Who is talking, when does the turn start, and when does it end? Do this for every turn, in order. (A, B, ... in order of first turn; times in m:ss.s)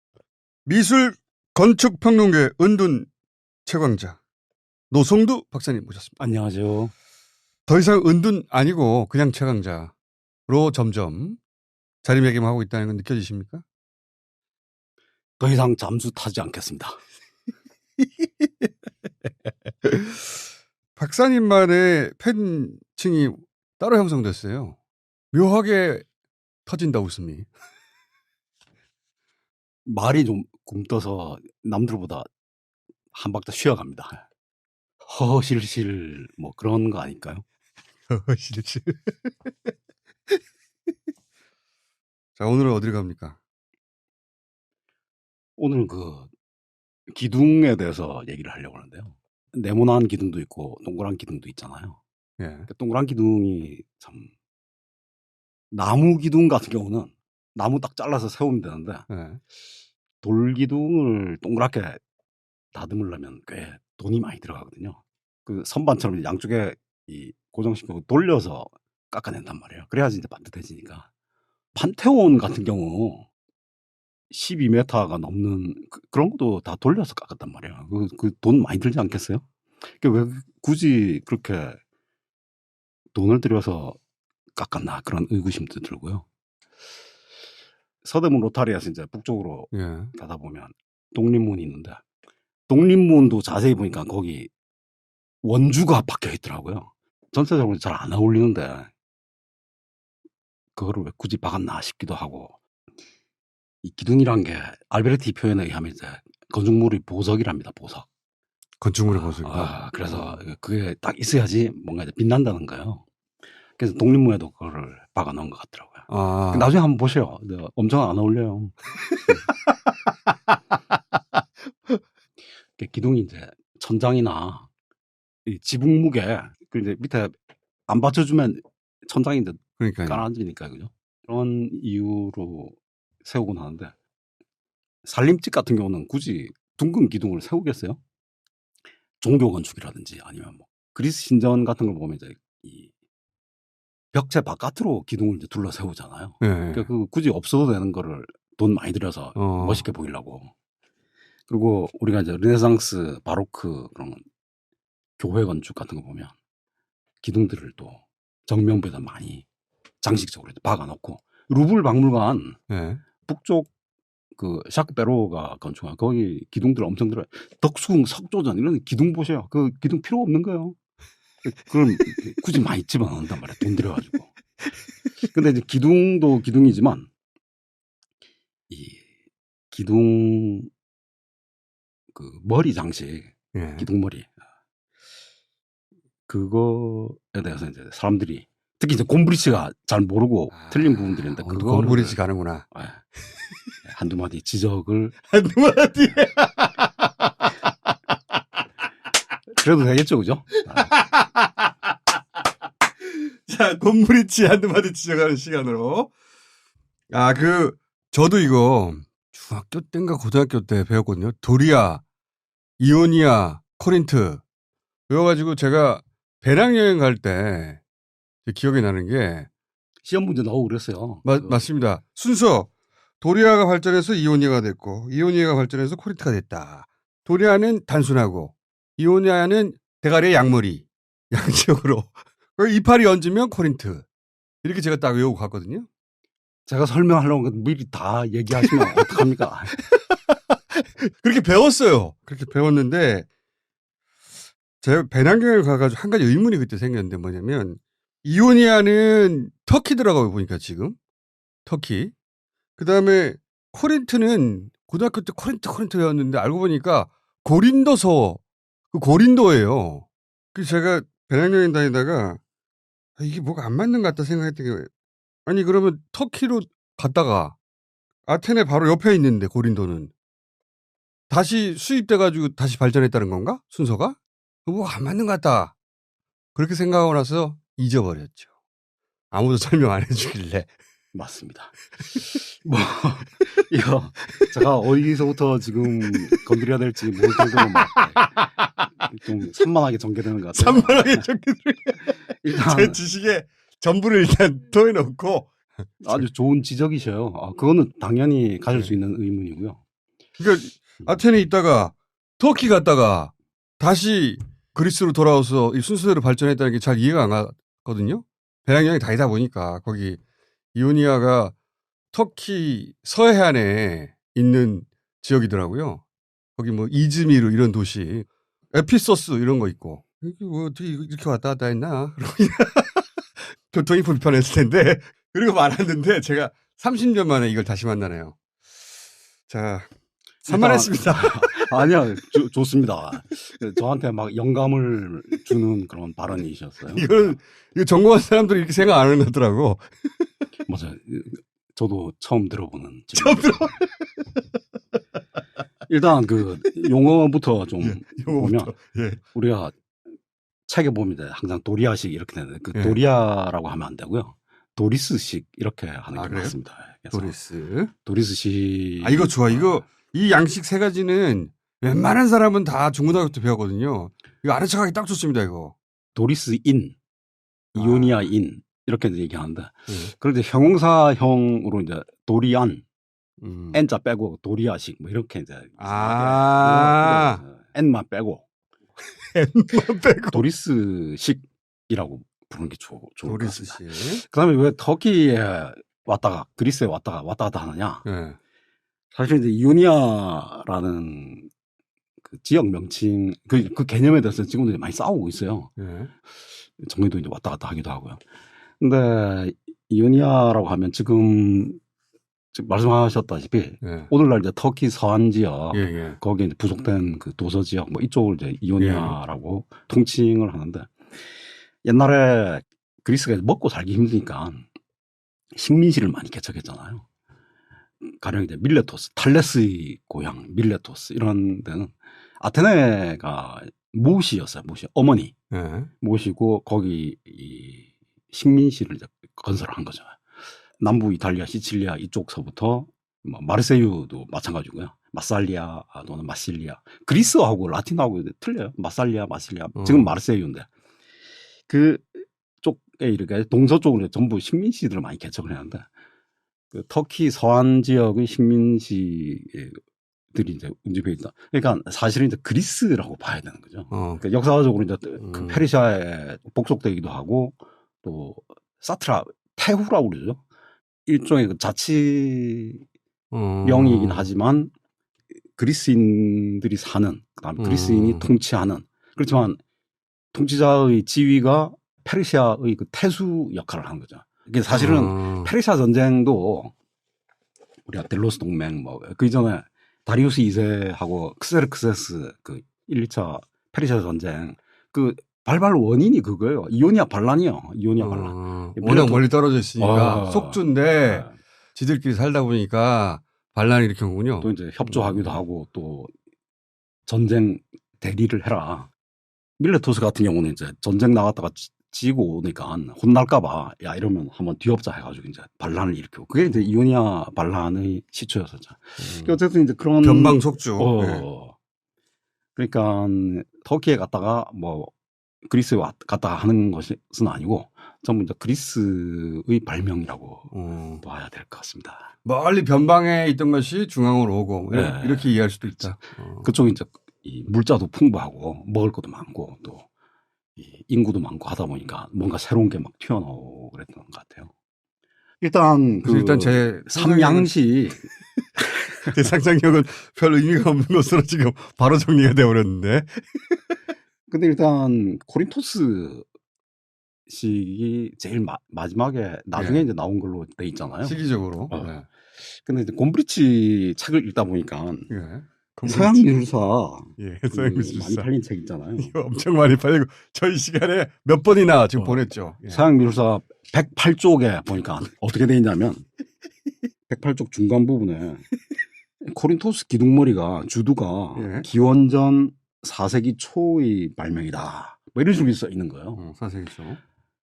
0:00.7-0:03.1 A
0:03.7-0:04.2 A
0:04.9-0:06.2 A
0:06.2-0:06.9 B
0:07.7-0:09.9 A
0:10.5-0:11.4 A
0:12.0-0:13.6 A
0:15.4-0:17.0 B
0:19.8-0:20.2 A
0:21.0-0:24.8 A
0:25.3-0:26.0 A
0:26.7-0:27.5 A
0:29.9-0:32.3 B
0:33.1-0:34.2 B
0:35.1-0:37.4 B
0:38.1-0:39.3 A
0:42.4-0:43.4 A
0:45.6-0:46.3 B
0:47.1-0:52.0 B
0:52.4-0:52.7 A
0:52.7-0:54.3 B
0:55.7-0:59.1 B
0:59.1-0:59.4 A
1:00.2-1:02.0 B
1:02.7-1:11.1 B
1:11.7-1:13.3 B
1:14.3-1:21.8 B
1:23.1-1:24.0 B
1:24.6-1:26.2 B
1:28.0-1:32.0 B
1:29.7-1:30.1 A
1:32.7-1:34.5 B
1:35.4-1:38.9 B
1:40.8-1:42.6 B
1:43.8-1:48.1 B
1:48.8-1:50.4 A
1:49.1-1:53.1 B
1:53.8-1:58.8 B
1:56.1-1:56.7 A
2:02.8-2:04.7 B
2:05.5-2:07.3 B
2:07.9-2:13.9 B
2:09.8-2:10.2 A
2:15.0-2:18.0 B
2:19.2-2:22.9 B
2:24.1-2:30.5 B
2:26.4-2:26.9 A
2:29.4-2:29.9 A
2:31.5-2:34.2 B
2:35.2-2:36.4 B
2:37.2-2:39.5 B
2:40.0-2:42.6 B
2:42.7-2:43.0 A
2:43.3-2:43.7 B
2:44.4-2:50.8 B
2:51.5-2:54.3 B
2:55.3-2:57.1 B
2:58.7-2:59.1 B
2:59.7-3:00.7 B
3:02.1-3:04.3 B
3:03.5-3:03.9 A
3:06.3-3:12.2 B
3:10.5-3:12.6 A
3:12.7-3:13.0 B
3:13.8-3:15.2 B
3:15.3-3:17.7 A
3:19.6-3:20.9 B
3:20.7-3:21.7 A
3:23.1-3:26.1 A
3:27.1-3:32.0 A
3:32.8-3:34.4 A
3:35.1-3:37.8 A
3:38.5-3:39.5 A
3:40.0-3:41.7 B
3:41.2-3:42.7 A
3:43.2-3:54.0 A
3:54.6-3:55.9 A
3:56.7-3:59.8 B
3:58.6-3:59.0 A
3:59.9-4:00.4 A
4:01.0-4:03.3 A
4:04.8-4:11.0 A
4:11.7-4:12.1 A
4:12.8-4:18.4 A
4:18.9-4:22.4 A
4:23.2-4:24.9 A
4:25.5-4:27.6 A
4:28.3-4:30.1 A
4:31.3-4:35.7 A
4:36.6-4:38.5 A
4:39.3-4:40.7 A
4:41.1-4:41.8 B
4:42.6-4:48.3 B
4:47.4-4:48.7 A
4:49.1-4:51.3 B
4:50.5-4:55.5 A
4:52.4-4:53.0 B
4:56.0-4:59.8 B
5:00.4-5:10.2 A
5:10.8-5:11.5 A
5:12.1-5:16.0 A
5:16.6-5:23.1 A
5:23.7-5:28.4 A
5:29.5-5:29.9 A
5:30.4-5:31.8 A
5:30.4-5:37.4 B
5:36.9-5:39.9 A
5:40.7-5:43.7 B
5:43.2-5:44.4 A
5:45.9-5:48.7 B
5:47.8-5:49.2 A
5:49.3-5:49.8 B
5:50.7-5:57.3 B
5:56.1-5:56.5 A
5:57.1-5:57.9 A
5:58.0-5:59.8 B
5:59.0-6:05.8 A
6:06.2-6:07.0 B
6:07.7-6:08.3 A
6:07.8-6:12.8 B
6:13.4-6:13.8 A
6:13.7-6:18.4 B
6:15.8-6:17.4 A
6:19.2-6:20.4 A
6:20.3-6:28.1 B
6:23.2-6:24.2 A
6:28.0-6:28.4 A
6:29.1-6:31.5 B
6:32.2-6:35.7 B
6:35.8-6:36.1 A
6:36.8-6:38.2 B
6:38.8-6:41.8 B
6:42.5-6:51.0 B
6:43.8-6:44.1 A
6:45.7-6:46.2 A
6:48.8-6:49.2 A
6:51.8-6:54.7 B
6:55.5-6:57.0 B
6:58.0-7:05.3 B
7:05.5-7:05.9 A
7:06.0-7:10.2 B
7:10.8-7:20.7 B
7:19.8-7:20.1 A
7:21.7-7:25.9 B
7:26.7-7:29.8 B
7:30.3-7:40.4 B
7:33.9-7:34.2 A
7:35.2-7:35.6 A
7:41.1-7:42.8 B
7:43.3-7:44.3 A
7:43.6-7:44.7 B
7:45.6-7:49.6 B
7:47.6-7:48.3 A
7:50.3-7:56.7 B
7:54.7-7:55.5 A
7:57.9-8:11.3 B
8:08.0-8:14.5 A
8:14.4-8:16.1 B
8:17.1-8:18.9 B
8:19.6-8:31.6 B
8:29.0-8:29.4 A
8:30.0-8:31.2 A
8:32.6-8:34.9 B
8:35.4-8:42.1 B
8:40.5-8:41.0 A
8:42.3-8:46.5 A
8:44.7-8:45.9 B
8:46.4-8:49.9 B
8:50.6-8:54.5 B
8:55.4-8:58.1 B
8:56.0-8:57.5 A
8:58.9-8:59.1 B
8:59.1-9:03.6 A
9:04.3-9:06.3 B
9:07.3-9:15.1 B
9:09.6-9:09.9 A
9:11.0-9:12.0 A
9:15.1-9:16.2 A
9:15.8-9:19.1 B
9:17.2-9:18.3 A
9:19.0-9:22.8 A
9:22.0-9:26.1 B
9:27.1-9:28.5 B
9:29.2-9:36.2 B
9:31.4-9:31.7 A
9:36.2-9:37.0 A